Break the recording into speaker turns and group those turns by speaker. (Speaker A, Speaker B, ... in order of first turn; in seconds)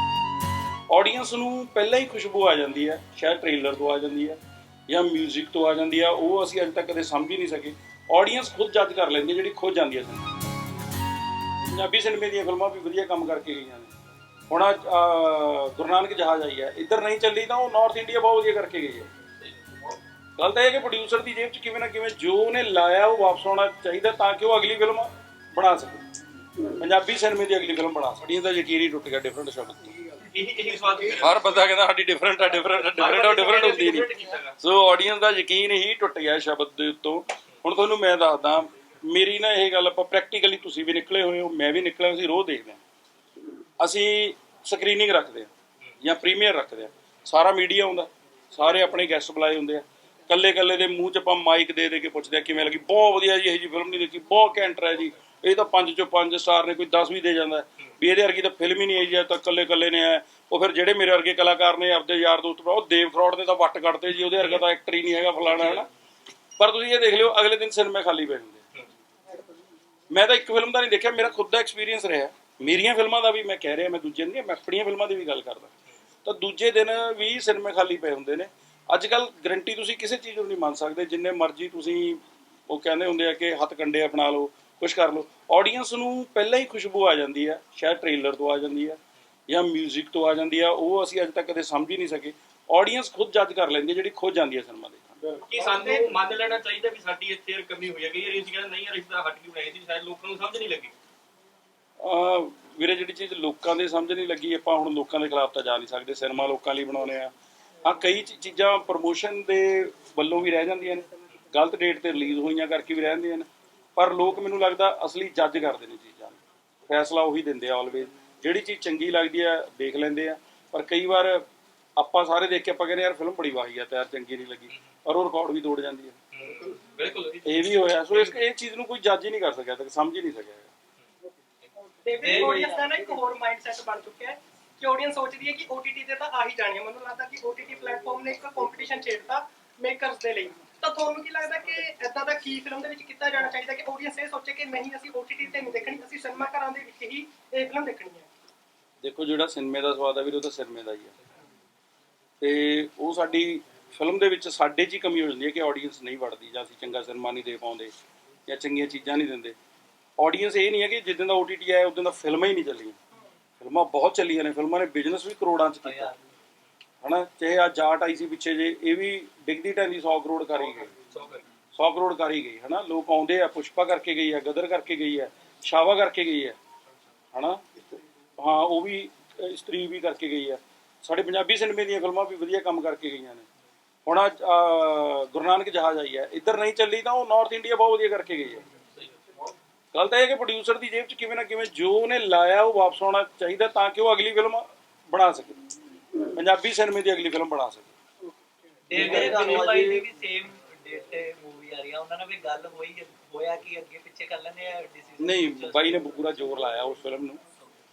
Speaker A: 0.9-10.3, 11.7-13.9, 14.5-19.1, 20.4-26.0, 26.8-29.9, 31.1-42.8, 43.8-45.5, 46.0-65.9, 66.6-68.6, 70.1-75.7, 76.2-95.4, 102.0-107.3, 107.8-121.5, 122.0-126.2, 127.5-130.7, 149.0-151.1, 152.4-157.9, 158.5-159.6, 160.2-163.0, 163.6-166.1, 167.0-170.9, 171.7-176.6, 177.3-177.7, 178.4-183.5, 184.1-188.6, 189.9-195.6, 196.4-197.9, 198.9-200.0, 205.2-207.4
Speaker B: 30.3-31.4, 32.9-34.6, 65.5-65.8, 95.5-100.9, 126.3-128.4, 132.2-132.8, 171.1-171.4, 199.2-199.9
Speaker C: 95.6-96.0, 132.1-148.3
Speaker D: 165.8-166.2, 198.9-206.0